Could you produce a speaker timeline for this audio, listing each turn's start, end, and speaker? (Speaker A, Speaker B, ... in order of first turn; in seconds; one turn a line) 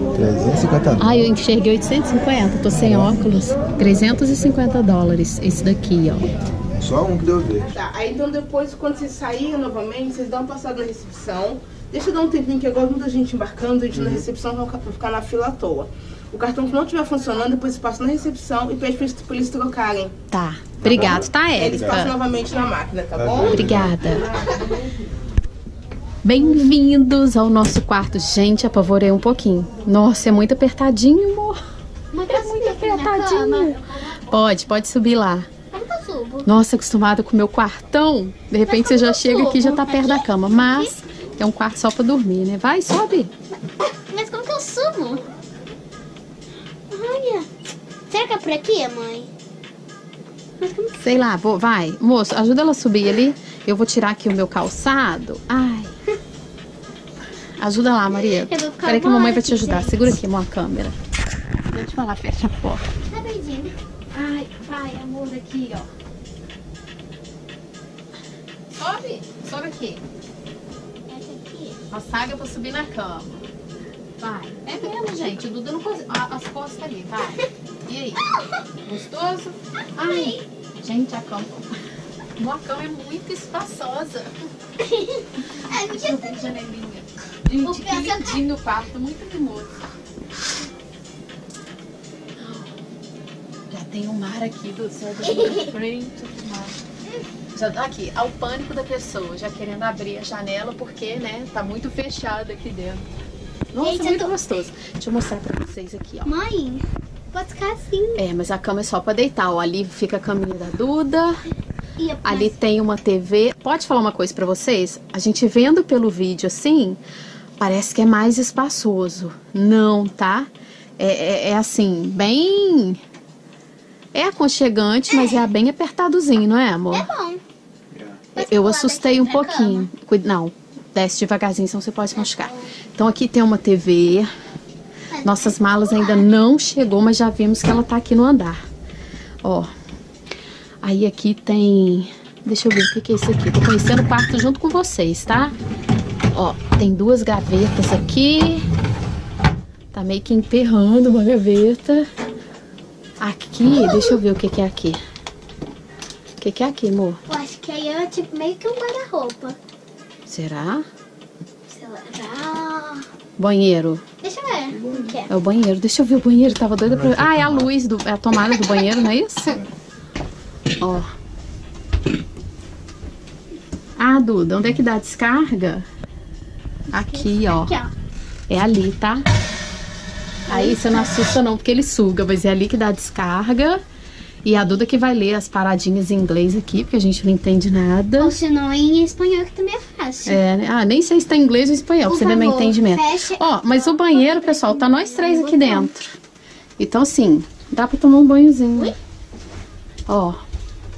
Speaker A: 0.1-1.1
Speaker B: 1.0-6.2
Speaker A: 6.8-7.7
Speaker C: 7.7-20.1
Speaker A: 13.9-14.2
Speaker B: 20.3-22.1
Speaker A: 20.8-22.0
Speaker C: 21.6-24.7
Speaker A: 23.2-24.0
Speaker B: 23.5-24.3
Speaker B: 26.2-31.6
Speaker D: 32.1-33.9
Speaker B: 32.3-35.5
Speaker D: 35.7-36.5
Speaker B: 36.4-43.3
Speaker D: 38.6-41.0
Speaker D: 43.8-45.2
Speaker D: 46.9-47.5
Speaker D: 48.1-49.3
Speaker D: 50.6-50.9
Speaker B: 51.0-55.9
Speaker B: 57.6-60.9
Speaker D: 58.1-60.1
Speaker B: 61.7-62.8
Speaker D: 63.1-63.7
Speaker B: 64.1-65.8
Speaker B: 68.7-70.0
Speaker D: 71.1-71.8
Speaker B: 71.9-73.4
Speaker B: 74.2-81.6
Speaker D: 74.7-75.3
Speaker D: 80.0-80.4
Speaker B: 82.4-84.3
Speaker D: 84.8-86.5
Speaker B: 85.7-89.7
Speaker D: 87.6-88.4
Speaker B: 93.7-96.8
Speaker D: 95.2-95.7
Speaker B: 97.5-103.0
Speaker B: 103.7-106.3
Speaker D: 103.8-104.3
Speaker D: 106.2-108.2
Speaker B: 108.2-111.4
Speaker D: 112.0-112.5
Speaker B: 112.2-117.0
Speaker B: 117.6-123.0
Speaker B: 124.1-127.1
Speaker D: 125.1-125.4
Speaker D: 126.9-127.4
Speaker A: 127.9-128.2
Speaker D: 128.3-129.9
Speaker B: 128.4-134.3
Speaker D: 132.1-132.7
Speaker D: 135.1-136.3
Speaker B: 135.2-138.6
Speaker B: 139.4-139.7
Speaker B: 140.8-145.5
Speaker B: 146.3-148.7
Speaker B: 149.9-152.1
Speaker B: 153.2-155.0
Speaker D: 153.7-154.2
Speaker B: 156.4-157.2
Speaker D: 157.3-159.6
Speaker B: 160.3-160.8
Speaker D: 161.7-163.1
Speaker B: 163.4-164.0
Speaker D: 164.2-165.3
Speaker B: 165.3-169.6
Speaker A: 166.9-167.7
Speaker B: 170.8-171.1
Speaker B: 174.0-175.8
Speaker D: 176.9-177.9
Speaker B: 176.9-177.7
Speaker B: 178.5-179.2
Speaker D: 180.5-181.1
Speaker B: 180.5-183.8
Speaker B: 184.4-188.3
Speaker D: 188.2-190.4
Speaker B: 190.2-196.2
Speaker D: 192.0-195.9
Speaker B: 196.8-198.9
Speaker B: 200.1-200.4